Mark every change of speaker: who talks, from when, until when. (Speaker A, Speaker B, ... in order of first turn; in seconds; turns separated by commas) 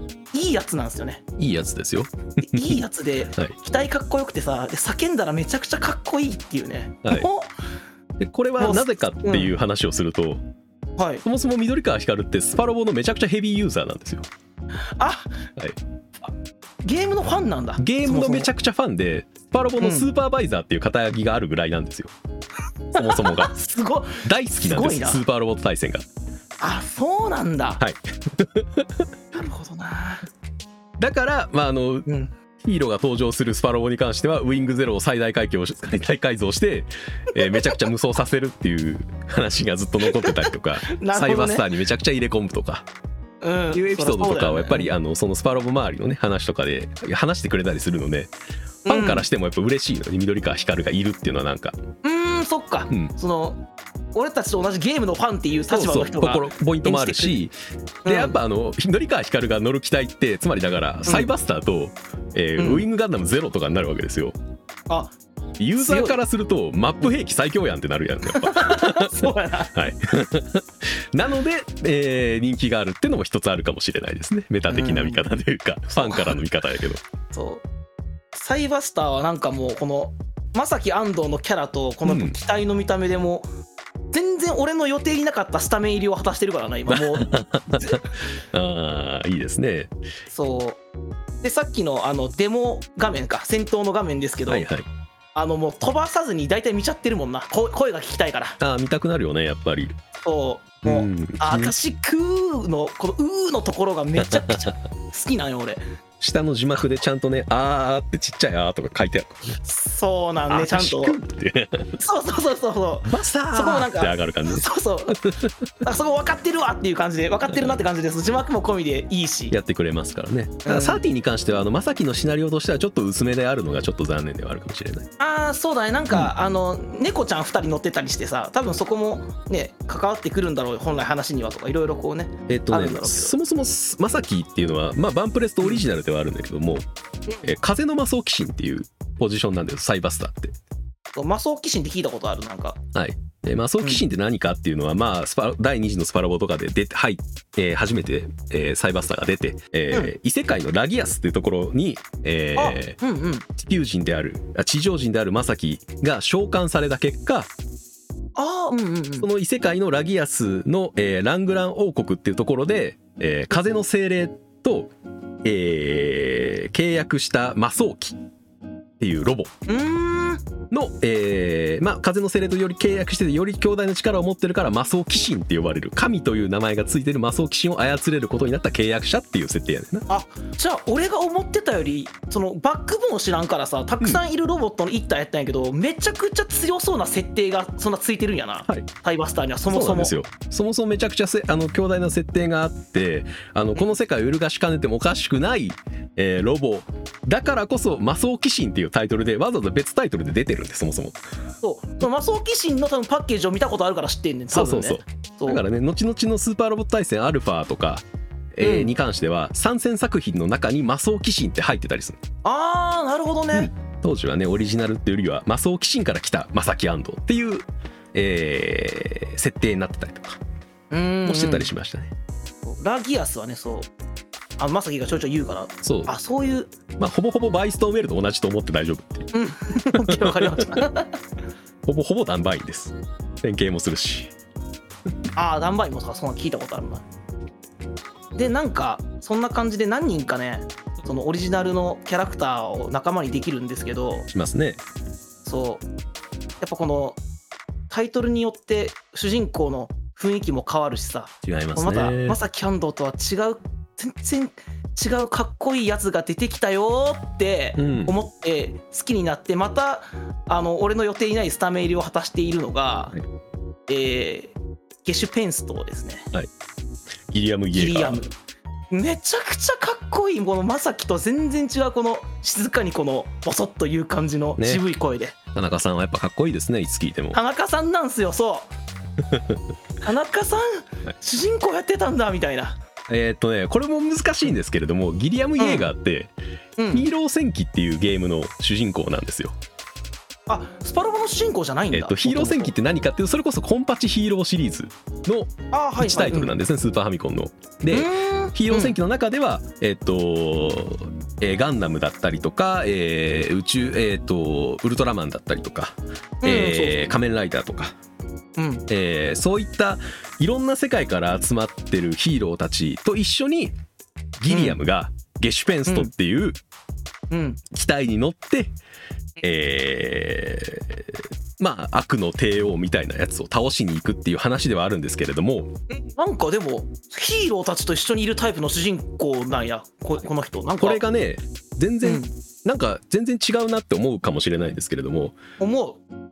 Speaker A: 0.3-1.2, Speaker B: 1.4-2.8, Speaker A: 2.4-7.5, Speaker B: 8.2-10.4, Speaker A: 8.6-9.5, Speaker A: 11.0-11.2, Speaker B: 11.2-14.2, Speaker A: 15.0-15.4, Speaker A: 16.8-18.5, Speaker B: 17.8-22.1, Speaker A: 19.8-20.1, Speaker A: 22.9-25.2, Speaker B: 22.9-23.5, Speaker B: 24.2-26.0, Speaker A: 26.6-27.8, Speaker B: 27.8-29.1, Speaker A: 29.3-30.2, Speaker B: 31.0-32.1, Speaker A: 32.0-32.3, Speaker B: 32.6-42.9, Speaker A: 37.3-37.7, Speaker A: 40.0-41.7, Speaker A: 43.4-44.9, Speaker B: 43.7-48.3, Speaker A: 48.8-49.2, Speaker B: 48.9-51.8, Speaker A: 52.0-53.6, Speaker A: 54.1-57.4, Speaker B: 55.7-57.5, Speaker A: 58.0-58.4, Speaker B: 58.0-64.3, Speaker A: 62.6-62.9, Speaker A: 64.9-65.2, Speaker B: 65.6-77.0, Speaker A: 65.8-66.2, Speaker A: 68.2-69.7, Speaker A: 74.7-75.2, Speaker A: 76.0-76.4, Speaker A: 77.3-77.6, Speaker A: 78.3-83.5, Speaker B: 82.0-82.3, Speaker A: 84.1-88.0, Speaker B: 86.9-89.9, Speaker A: 90.3-90.8, Speaker A: 91.4-94.7, Speaker B: 94.5-94.9, Speaker A: 95.3-98.6, Speaker B: 98.6-99.9, Speaker A: 100.2-105.8, Speaker B: 100.8-101.7, Speaker B: 104.2-104.7, Speaker B: 106.2-109.6, Speaker A: 109.6-111.2, Speaker B: 110.5-112.0, Speaker A: 112.0-119.5, Speaker B: 113.0-115.5, Speaker B: 117.5-117.8, Speaker B: 119.5-125.1, Speaker A: 120.6-121.0, Speaker A: 125.2-133.3, Speaker B: 132.5-136.8, Speaker B: 137.4-140.5, Speaker A: 141.1-142.8, Speaker B: 142.9-153.0, Speaker A: 152.6-153.4, Speaker B: 153.6-157.5, Speaker A: 158.3-159.3, Speaker B: 159.2-164.9, Speaker B: 165.4-168.2, Speaker B: 169.0-169.5, Speaker A: 169.7-170.4, Speaker B: 170.7-180.1, Speaker A: 180.1-190.1, Speaker B: 189.7-201.2, Speaker A: 201.6-205.6, Speaker B: 204.5-212.2, Speaker A: 208.6-208.9, Speaker A: 212.4-213.7, Speaker B: 213.5-220.4, Speaker A: 220.9-221.7, Speaker B: 221.2-222.1, Speaker A: 222.6-223.9, Speaker A: 224.6-226.7, Speaker B: 225.8-226.1, Speaker B: 227.0-229.3, Speaker A: 229.3-231.2, Speaker B: 229.9-230.8, Speaker B: 231.8-234.3, Speaker A: 235.3-237.0, Speaker A: 238.3-244.3, Speaker B: 244.3-244.8, Speaker A: 245.4-245.8, Speaker A: 246.6-247.2, Speaker A: 247.9-263.1, Speaker B: 251.4-252.4, Speaker B: 257.8-258.1, Speaker A: 263.9-266.3, Speaker B: 267.3-268.2, Speaker A: 267.7-268.3, Speaker A: 268.9-275.3, Speaker B: 275.5-277.4, Speaker A: 277.3-278.7, Speaker B: 279.2-279.6, Speaker A: 280.0-282.8, Speaker B: 283.1-286.3, Speaker A: 285.6-285.9, Speaker A: 286.8-287.1, Speaker B: 286.9-289.6, Speaker A: 290.5-292.7, Speaker B: 291.9-307.9, Speaker A: 295.7-296.5, Speaker A: 297.9-298.9, Speaker A: 306.4-307.1, Speaker A: 308.6-308.8, Speaker B: 308.9-313.7, Speaker B: 314.4-316.6, Speaker A: 314.5-314.8, Speaker A: 317.3-317.6, Speaker B: 317.7-318.7, Speaker B: 319.4-325.7, Speaker A: 325.9-331.0, Speaker B: 330.8-335.4, Speaker A: 332.0-332.3, Speaker A: 335.6-336.0